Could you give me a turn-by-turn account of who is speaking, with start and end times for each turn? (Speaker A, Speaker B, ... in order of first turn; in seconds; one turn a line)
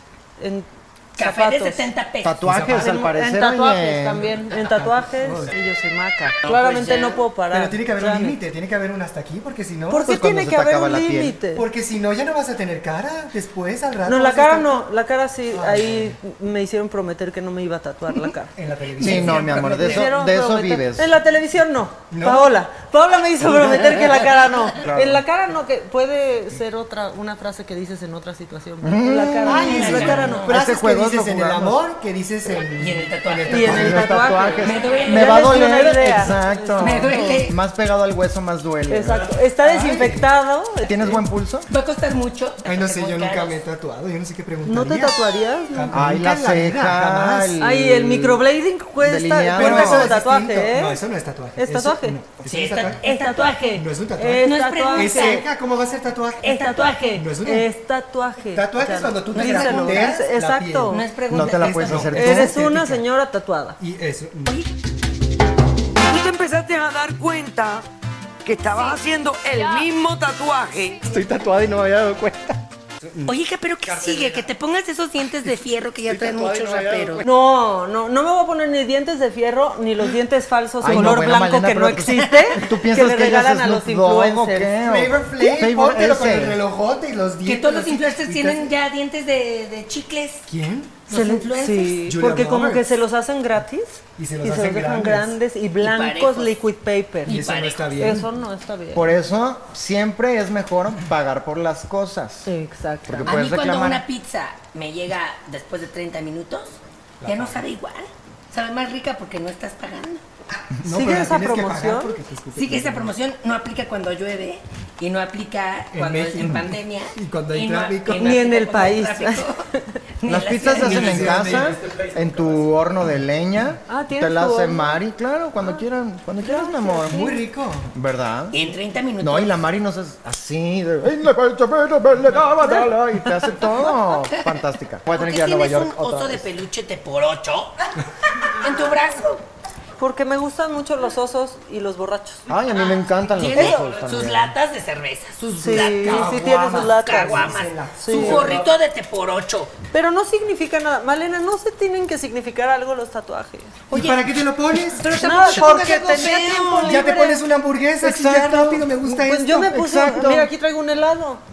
Speaker A: 0.4-1.9
Speaker B: 1.2-2.5
Speaker C: 2.2-4.3
Speaker D: 2.4-3.0
Speaker A: 2.7-8.4
Speaker D: 4.6-5.5
Speaker B: 6.4-7.2
Speaker D: 7.5-10.1
Speaker A: 9.9-11.7
Speaker C: 10.0-11.4
Speaker D: 11.6-14.8
Speaker A: 14.1-18.5
Speaker D: 15.5-16.2
Speaker D: 18.6-20.1
Speaker C: 19.0-21.1
Speaker A: 19.1-30.5
Speaker D: 22.1-22.6
Speaker D: 23.4-24.2
Speaker C: 24.8-25.2
Speaker C: 28.8-29.9
Speaker D: 29.4-34.2
Speaker B: 29.5-30.6
Speaker C: 30.4-31.8
Speaker B: 32.7-33.9
Speaker A: 33.5-37.4
Speaker C: 33.6-39.3
Speaker B: 34.6-35.5
Speaker B: 36.8-37.6
Speaker A: 38.9-41.2
Speaker D: 39.6-40.2
Speaker C: 40.8-41.7
Speaker B: 41.7-43.6
Speaker D: 42.6-45.2
Speaker A: 44.6-46.0
Speaker D: 45.7-47.6
Speaker C: 45.9-48.4
Speaker A: 47.6-51.0
Speaker C: 49.0-50.1
Speaker D: 49.5-53.0
Speaker A: 51.6-52.2
Speaker B: 52.5-53.8
Speaker A: 53.0-55.5
Speaker D: 53.8-56.5
Speaker B: 54.4-55.5
Speaker B: 56.4-57.1
Speaker A: 56.4-61.0
Speaker D: 57.1-57.7
Speaker D: 58.5-61.0
Speaker B: 59.3-60.2
Speaker B: 60.9-62.2
Speaker C: 61.3-62.6
Speaker D: 61.7-63.0
Speaker A: 62.1-63.8
Speaker D: 63.8-64.6
Speaker B: 64.5-64.7
Speaker E: 66.0-67.8
Speaker E: 68.4-71.0
Speaker B: 68.6-69.9
Speaker D: 71.0-73.3
Speaker B: 73.3-77.2
Speaker D: 73.9-74.4
Speaker D: 76.1-77.2
Speaker A: 77.2-84.7
Speaker C: 80.8-86.6
Speaker D: 84.8-88.7
Speaker B: 87.4-90.5
Speaker D: 90.5-91.0
Speaker B: 91.1-92.1
Speaker A: 91.1-97.4
Speaker D: 92.1-92.9
Speaker D: 94.2-95.3
Speaker B: 95.8-96.6
Speaker B: 97.3-98.2
Speaker D: 97.3-98.3
Speaker A: 98.0-99.1
Speaker C: 98.9-102.5
Speaker A: 102.5-103.4
Speaker C: 103.1-104.0
Speaker B: 103.2-110.2
Speaker D: 107.2-107.6
Speaker D: 110.8-113.1
Speaker A: 110.9-112.1
Speaker B: 112.5-119.7
Speaker D: 115.9-118.3
Speaker A: 118.2-120.0
Speaker B: 120.2-121.7
Speaker C: 120.3-127.3
Speaker D: 120.7-121.8
Speaker A: 123.9-125.0
Speaker A: 126.4-127.4
Speaker D: 127.1-127.9
Speaker C: 127.9-128.6
Speaker B: 128.5-129.6
Speaker C: 129.2-136.5
Speaker B: 135.1-137.9
Speaker B: 138.4-139.4
Speaker A: 140.0-142.4
Speaker C: 142.5-144.5
Speaker B: 143.4-146.4
Speaker A: 145.4-148.6
Speaker D: 145.6-148.7
Speaker B: 147.0-149.7
Speaker A: 149.9-153.8
Speaker D: 153.9-155.9
Speaker B: 153.9-154.3
Speaker B: 155.0-157.1
Speaker A: 155.1-157.4
Speaker D: 156.8-159.7
Speaker C: 158.0-160.5
Speaker A: 159.0-161.4